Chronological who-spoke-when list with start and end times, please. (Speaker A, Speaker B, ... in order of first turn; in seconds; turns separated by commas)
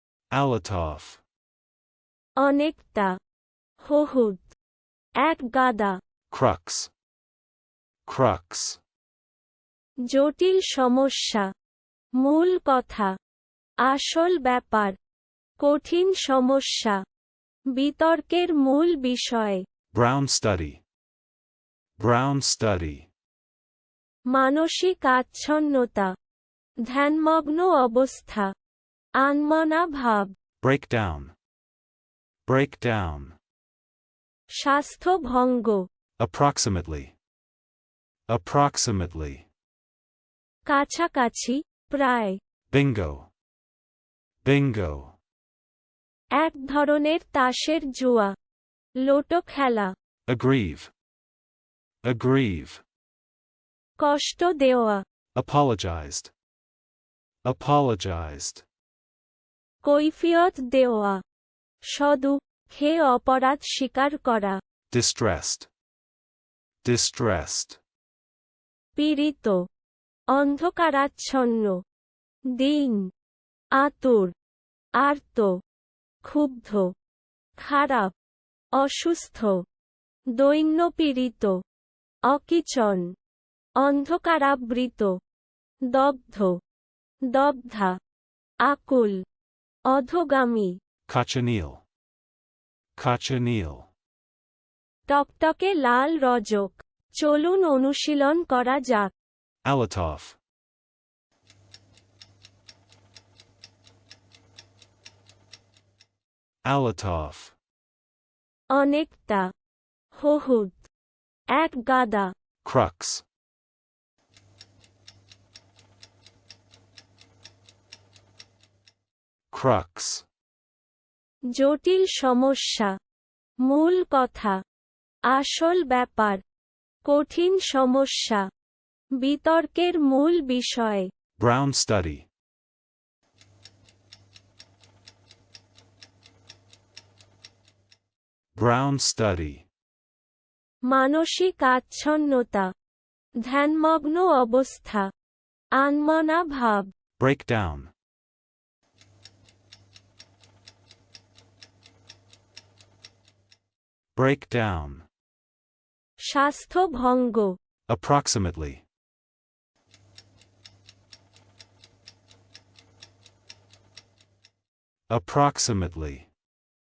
Speaker A: 0.3-1.2, Speaker B: 2.4-3.1, Speaker B: 3.8-4.5, Speaker B: 5.2-6.0, Speaker A: 6.3-6.9, Speaker A: 8.1-8.8, Speaker B: 10.1-11.5, Speaker B: 12.2-13.1, Speaker B: 13.8-14.9, Speaker B: 15.6-17.0, Speaker B: 17.7-19.6, Speaker A: 19.9-20.8, Speaker A: 22.0-23.1, Speaker B: 24.3-26.1, Speaker B: 26.9-28.5, Speaker B: 29.2-30.3, Speaker A: 30.6-31.3, Speaker A: 32.5-33.4, Speaker B: 34.5-35.8, Speaker A: 36.2-37.1, Speaker A: 38.3-39.5, Speaker B: 40.7-42.4, Speaker A: 42.7-43.3, Speaker A: 44.4-45.2, Speaker B: 46.4-48.3, Speaker B: 49.0-49.9, Speaker A: 50.3-50.9, Speaker A: 52.0-52.8, Speaker B: 54.0-55.0, Speaker A: 55.3-56.3, Speaker A: 57.5-58.6, Speaker B: 59.8-61.2, Speaker B: 61.9-64.6, Speaker A: 64.9-65.7, Speaker A: 66.8-67.8, Speaker B: 69.0-69.6, Speaker B: 70.3-71.8, Speaker B: 72.6-73.1, Speaker B: 73.8-74.3, Speaker B: 75.0-75.6, Speaker B: 76.2-76.9, Speaker B: 77.6-78.1, Speaker B: 78.8-79.6, Speaker B: 80.4-81.6, Speaker B: 82.3-83.1, Speaker B: 83.8-85.2, Speaker B: 85.9-86.6, Speaker B: 87.3-87.9, Speaker B: 88.6-89.2, Speaker B: 89.9-90.8, Speaker A: 91.1-91.8, Speaker A: 93.0-93.9, Speaker B: 95.1-99.1, Speaker A: 99.6-100.4, Speaker A: 106.6-107.6, Speaker B: 108.7-109.5, Speaker B: 110.1-110.9, Speaker B: 111.5-112.3, Speaker A: 112.6-113.2, Speaker A: 119.5-120.2, Speaker B: 121.5-122.9, Speaker B: 123.7-124.6, Speaker B: 125.3-126.4, Speaker B: 127.0-128.4, Speaker B: 129.2-131.1, Speaker A: 131.4-132.2, Speaker A: 138.5-139.7, Speaker B: 140.9-142.7, Speaker B: 143.4-145.1, Speaker B: 145.8-146.9, Speaker A: 147.2-147.9, Speaker A: 154.2-155.1, Speaker B: 156.2-157.6, Speaker A: 157.9-158.8, Speaker A: 165.1-166.3